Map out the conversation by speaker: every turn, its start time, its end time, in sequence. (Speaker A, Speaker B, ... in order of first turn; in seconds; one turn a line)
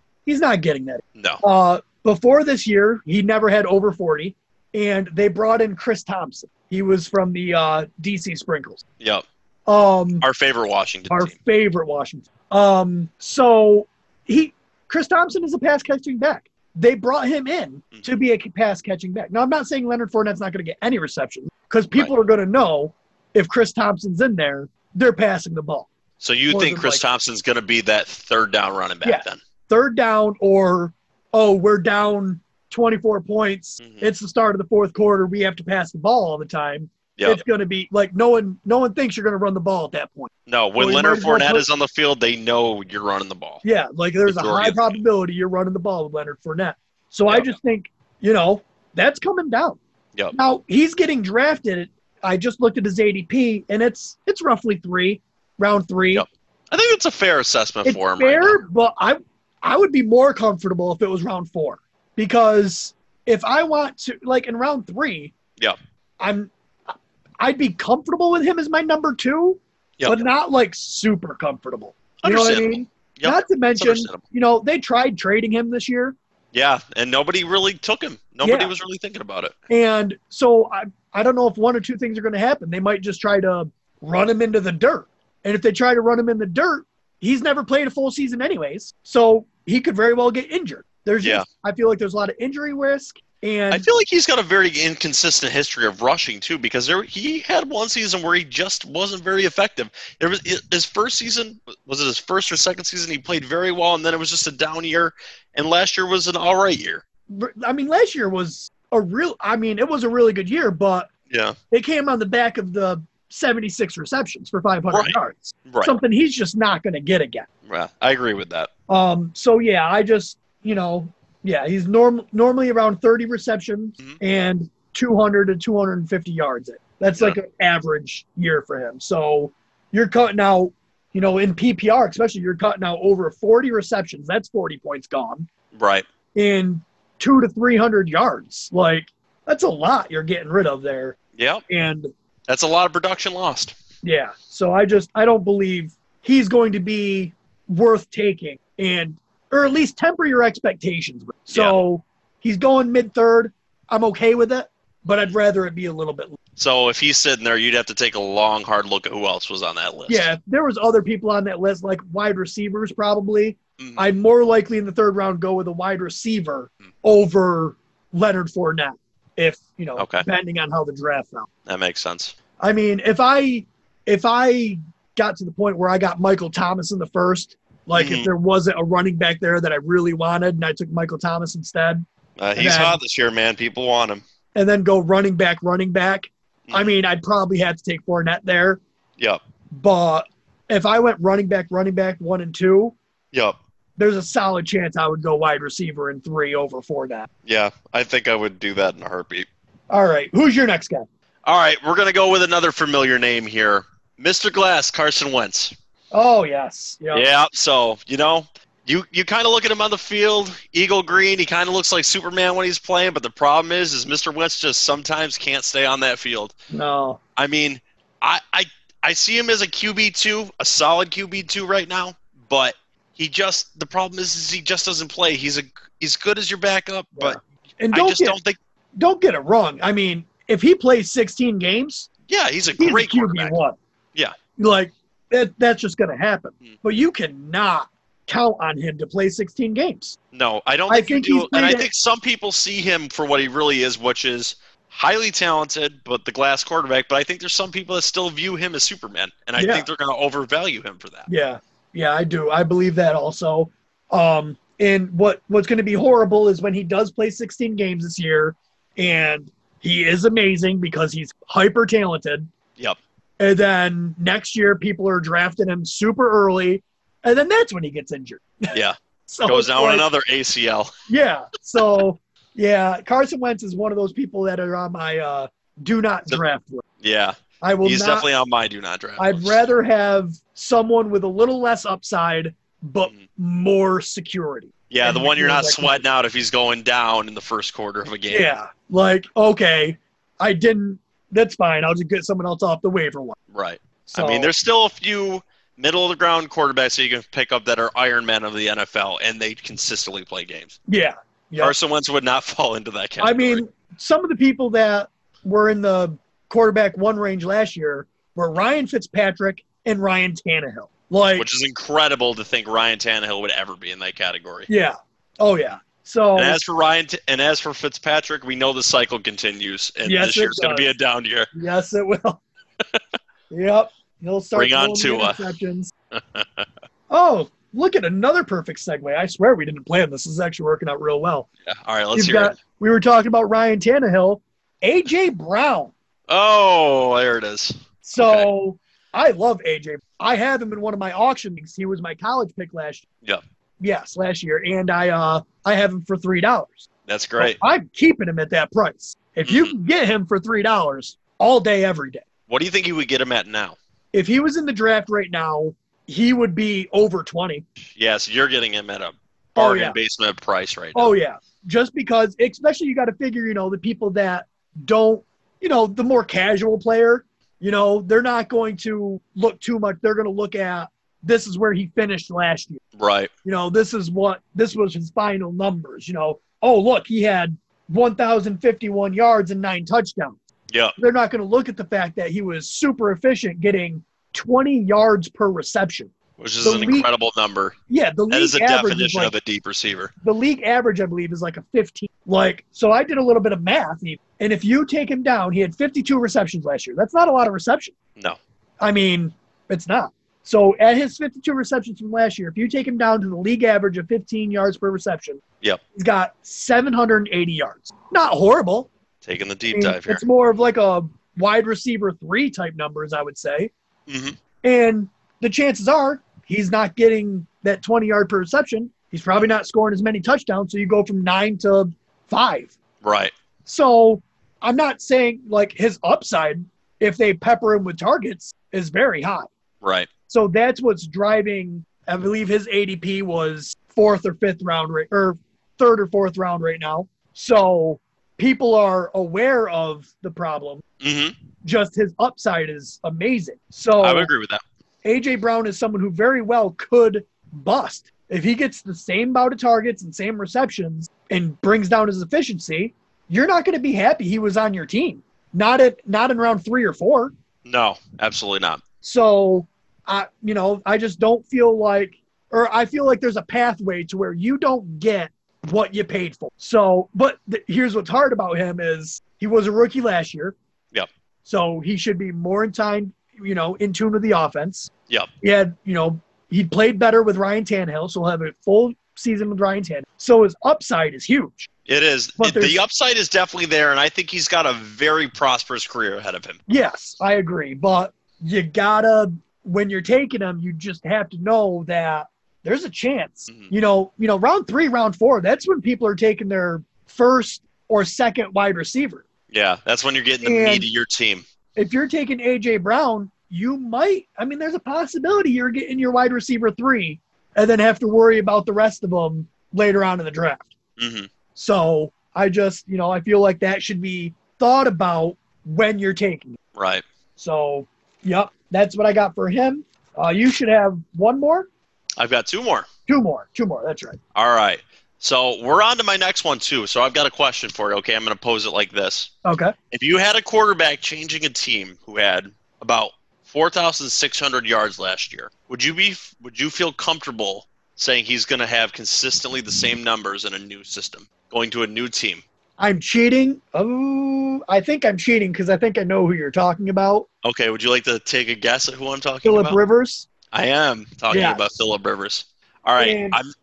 Speaker A: 0.3-8.8
Speaker B: 1.2-1.4
Speaker A: 9.7-10.3
Speaker B: 10.2-11.3
Speaker A: 11.1-25.9
Speaker B: 26.2-29.4
Speaker A: 26.5-27.0
Speaker A: 29.0-41.7
Speaker B: 33.8-34.1
Speaker B: 37.2-37.4
Speaker B: 40.5-43.6
Speaker A: 43.6-49.8
Speaker B: 44.3-45.0
Speaker B: 47.3-47.5
Speaker A: 50.3-56.2
Speaker B: 56.1-58.6
Speaker A: 57.8-65.3
Speaker A: 66.2-76.2
Speaker B: 70.0-70.2
Speaker B: 72.2-74.2
Speaker B: 76.5-79.5
Speaker A: 78.4-78.7
Speaker A: 79.7-93.9
Speaker B: 93.7-107.0
Speaker A: 107.3-111.1
Speaker B: 111.3-111.6
Speaker A: 111.7-117.5
Speaker B: 114.9-116.0
Speaker B: 117.7-118.7
Speaker A: 118.9-135.5
Speaker B: 135.7-136.1
Speaker A: 136.3-142.1
Speaker B: 141.4-141.6
Speaker B: 142.5-143.8
Speaker A: 144.0-156.4
Speaker B: 151.5-151.8
Speaker B: 156.6-160.3
Speaker A: 160.1-171.5
Speaker B: 163.8-164.1
Speaker B: 170.0-170.2
Speaker B: 171.7-172.4
Speaker A: 172.6-182.1
Speaker B: 178.0-178.3
Speaker B: 182.4-184.2
Speaker A: 182.6-183.0
Speaker A: 184.6-188.8
Speaker A: 189.7-192.9
Speaker A: 194.0-197.3
Speaker B: 197.4-199.5
Speaker A: 199.9-201.1
Speaker B: 201.4-205.7
Speaker A: 206.1-207.2
Speaker B: 207.1-216.5
Speaker A: 216.7-217.2
Speaker B: 217.4-227.4
Speaker A: 227.2-228.4
Speaker B: 227.9-228.6
Speaker A: 229.0-232.1
Speaker B: 232.3-233.6
Speaker A: 232.8-233.8
Speaker A: 234.6-240.2
Speaker B: 240.3-251.3
Speaker A: 240.9-241.9
Speaker A: 249.6-249.9
Speaker A: 251.3-262.5
Speaker A: 263.4-270.1
Speaker B: 268.7-270.9
Speaker A: 271.1-276.8
Speaker B: 277.0-279.6
Speaker A: 277.6-278.3
Speaker A: 279.2-286.0
Speaker B: 284.9-288.5
Speaker A: 288.3-293.4
Speaker B: 293.5-300.8
Speaker A: 294.1-294.5
Speaker A: 300.9-301.7
Speaker B: 301.6-303.6
Speaker A: 303.2-311.5
Speaker B: 311.4-314.7
Speaker A: 314.7-316.6
Speaker B: 316.4-321.5
Speaker A: 320.1-320.9
Speaker A: 321.5-322.4
Speaker A: 323.5-325.9
Speaker B: 324.6-325.4
Speaker B: 326.1-326.7
Speaker A: 327.1-331.5
Speaker B: 331.7-332.6
Speaker A: 332.1-335.9
Speaker B: 336.3-338.5
Speaker A: 338.0-343.0
Speaker A: 343.8-352.2
Speaker B: 347.1-347.6
Speaker B: 349.4-349.7
Speaker B: 352.5-353.8
Speaker A: 354.1-357.6
Speaker B: 357.9-361.1
Speaker A: 359.6-360.0
Speaker A: 360.9-372.8
Speaker B: 373.0-373.3
Speaker A: 373.4-380.4
Speaker A: 381.0-387.1
Speaker B: 386.4-387.8
Speaker A: 387.9-389.3
Speaker B: 388.3-390.1
Speaker A: 390.2-397.9
Speaker A: 398.8-405.4
Speaker A: 405.9-408.9
Speaker B: 409.2-410.2
Speaker A: 409.7-413.7
Speaker B: 414.1-414.4
Speaker A: 414.6-422.7
Speaker B: 423.0-423.3
Speaker A: 423.7-429.5
Speaker B: 429.8-430.1
Speaker A: 430.3-440.8
Speaker B: 441.0-441.4
Speaker A: 441.6-444.3
Speaker B: 444.0-444.6
Speaker A: 445.0-457.3
Speaker B: 457.6-458.8
Speaker A: 459.0-470.6
Speaker A: 471.4-481.7
Speaker B: 481.9-486.6
Speaker A: 482.4-482.8
Speaker A: 486.7-499.2
Speaker B: 499.5-501.4
Speaker A: 500.4-500.9
Speaker A: 501.8-510.8
Speaker B: 511.0-511.3
Speaker A: 511.6-516.6
Speaker B: 516.8-517.0
Speaker A: 517.4-521.7
Speaker B: 522.2-522.9
Speaker A: 523.1-524.2
Speaker B: 524.4-529.3
Speaker A: 529.4-529.7
Speaker B: 529.9-542.4
Speaker A: 542.8-547.3
Speaker B: 547.4-549.8
Speaker A: 549.4-550.3
Speaker B: 550.5-553.5
Speaker A: 551.3-551.7
Speaker A: 553.0-553.4